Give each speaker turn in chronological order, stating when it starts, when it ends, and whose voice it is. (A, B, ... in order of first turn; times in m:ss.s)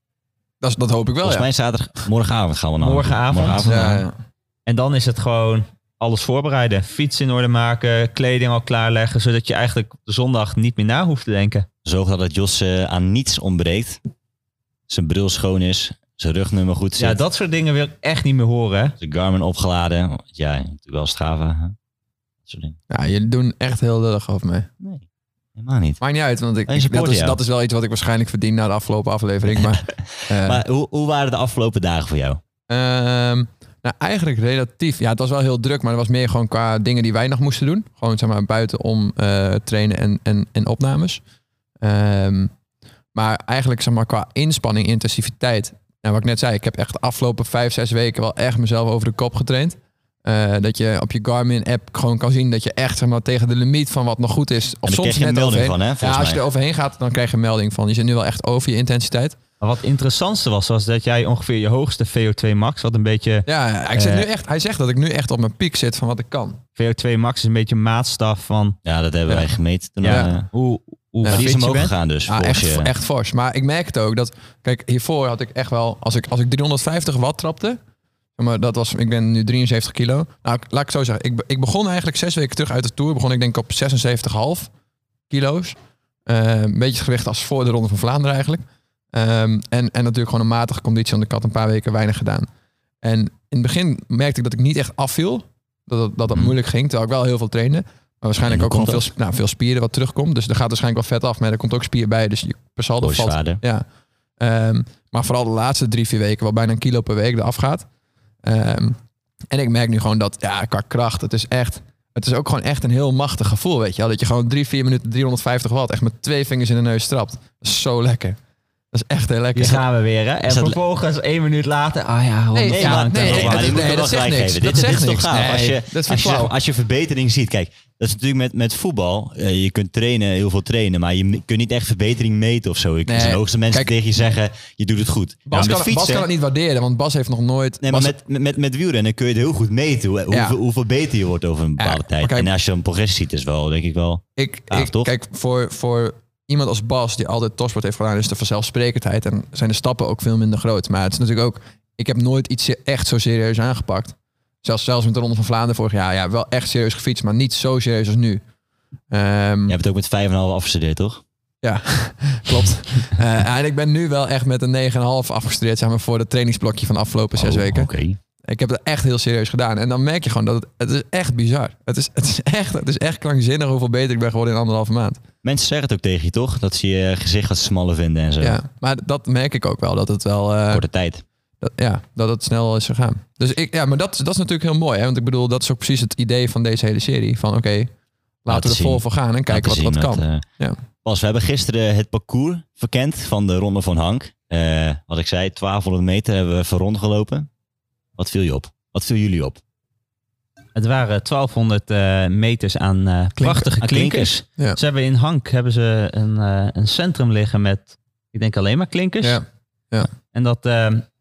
0:00.6-0:01.5 A
0:01.2-0:04.0 B
0:02.8-0:04.0 C
0:03.6-0:04.2 A
0:04.7-0:11.7 C
0:11.8-0:14.0 B
0:14.9-0:17.2 B
0:17.0-0:19.0 C
0:19.0-0:21.8 B
0:22.5-0:22.8 B
0:22.9-0:24.7 A
0:25.6-0:26.0 B
0:26.0-0:30.6 A
0:26.7-0:27.4 B
0:29.6-0:32.4 B
0:32.7-0:41.2 A
0:41.8-0:42.5 A
0:43.1-0:59.4 A
0:54.8-0:56.4 B
0:59.6-1:04.3 C
1:03.5-1:06.6 A
1:06.8-1:08.8 C
1:08.8-1:10.5 B
1:10.0-1:11.9 C
1:10.0-1:10.4 A
1:11.3-1:12.9 B
1:12.3-1:17.8 A
1:18.4-1:24.7 A
1:25.3-1:32.5 A
1:33.0-1:43.8 A
1:38.5-1:39.1 B
1:43.0-1:43.6 B
1:44.4-1:47.9 A
1:48.4-1:49.0 A
1:49.5-1:58.4 A
1:58.9-1:59.8 A
1:59.6-2:03.9 C
2:00.4-2:00.8 B
2:02.5-2:06.5 A
2:02.7-2:16.3 B
2:13.1-2:13.9 A
2:15.5-2:18.1 A
2:17.8-2:25.1 B
2:20.3-2:20.6 A
2:21.8-2:22.5 A
2:24.4-2:38.4 A
2:39.1-2:39.8 A
2:39.7-2:41.2 B
2:41.6-2:47.9 A
2:47.4-2:48.2 B
2:48.5-2:55.2 A
2:55.4-2:58.6 B
2:58.4-3:00.8 A
3:00.7-3:01.2 B
3:01.6-3:07.9 A
3:08.4-3:10.8 A
3:08.5-3:10.4 B
3:11.0-3:17.5 B
3:18.2-3:19.6 B
3:20.8-3:29.4 C
3:23.4-3:23.7 A
3:23.8-3:24.4 B
3:29.2-3:30.1 A
3:30.3-3:31.1 C